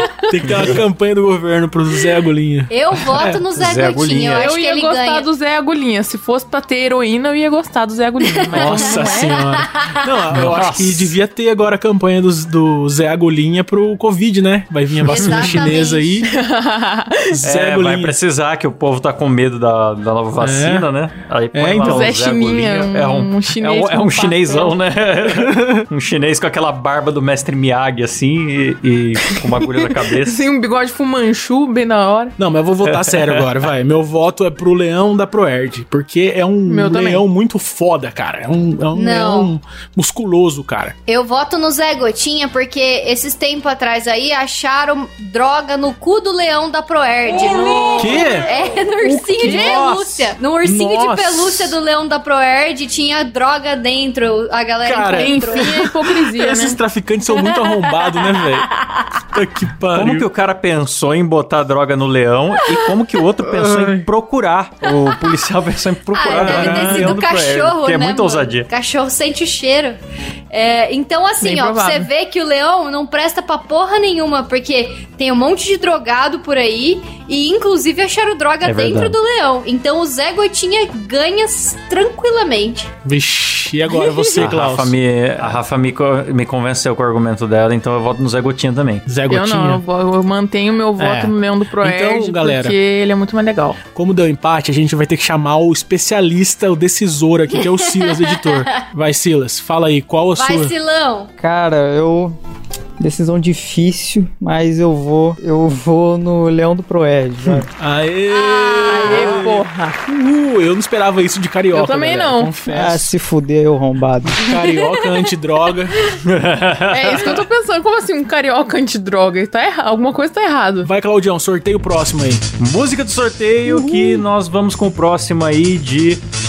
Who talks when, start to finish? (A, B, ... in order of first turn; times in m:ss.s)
0:00.3-0:03.4 A
0:00.5-0:00.7 B
0:02.7-0:05.3 C
0:03.6-0:04.5 B
0:04.4-0:09.5 D
0:08.5-0:16.3 A
0:08.5-0:09.1 C
0:09.6-0:10.0 C
0:10.3-0:11.1 B
0:15.0-0:16.2 C
0:16.2-0:17.4 D
0:17.3-0:18.2 A
0:17.4-0:30.4 B
0:20.4-0:20.9 A
0:21.5-0:22.2 A
0:21.8-0:24.8 D
0:25.2-0:25.8 A
0:29.4-0:32.4 D
0:32.4-0:40.9 A
0:32.9-0:33.7 B
0:36.7-0:37.3 D
0:38.9-0:39.5 C
0:41.1-0:55.9 C
0:47.3-0:51.8 A
0:47.6-0:48.4 D
0:54.8-0:58.7 A
0:55.1-0:56.8 D
0:57.3-0:59.1 C
0:59.3-1:00.3 A
0:59.9-1:08.7 B
1:03.4-1:04.0 A
1:06.1-1:10.0 C
1:06.2-1:07.2 A
1:10.5-1:22.9 C
1:11.4-1:12.1 D
1:18.6-1:19.2 B
1:23.0-1:25.5 A
1:23.9-1:24.5 D
1:24.3-1:29.0 B
1:29.0-1:29.8 A
1:29.3-1:33.8 D
1:31.0-1:32.8 A
1:33.8-1:40.7 A
1:37.7-1:38.8 C
1:40.4-1:41.3 C
1:41.4-1:42.4 E
1:43.0-1:47.7 E
1:47.5-1:53.1 A
1:48.3-1:49.5 C
1:48.9-1:50.0 D
1:51.7-1:52.6 D
1:52.7-1:54.5 E
1:54.3-1:55.9 A
1:54.7-1:55.2 C
1:56.2-1:57.4 B
1:56.9-2:00.9 D
2:00.8-2:02.5 A
2:02.6-2:06.2 B
2:03.9-2:04.1 D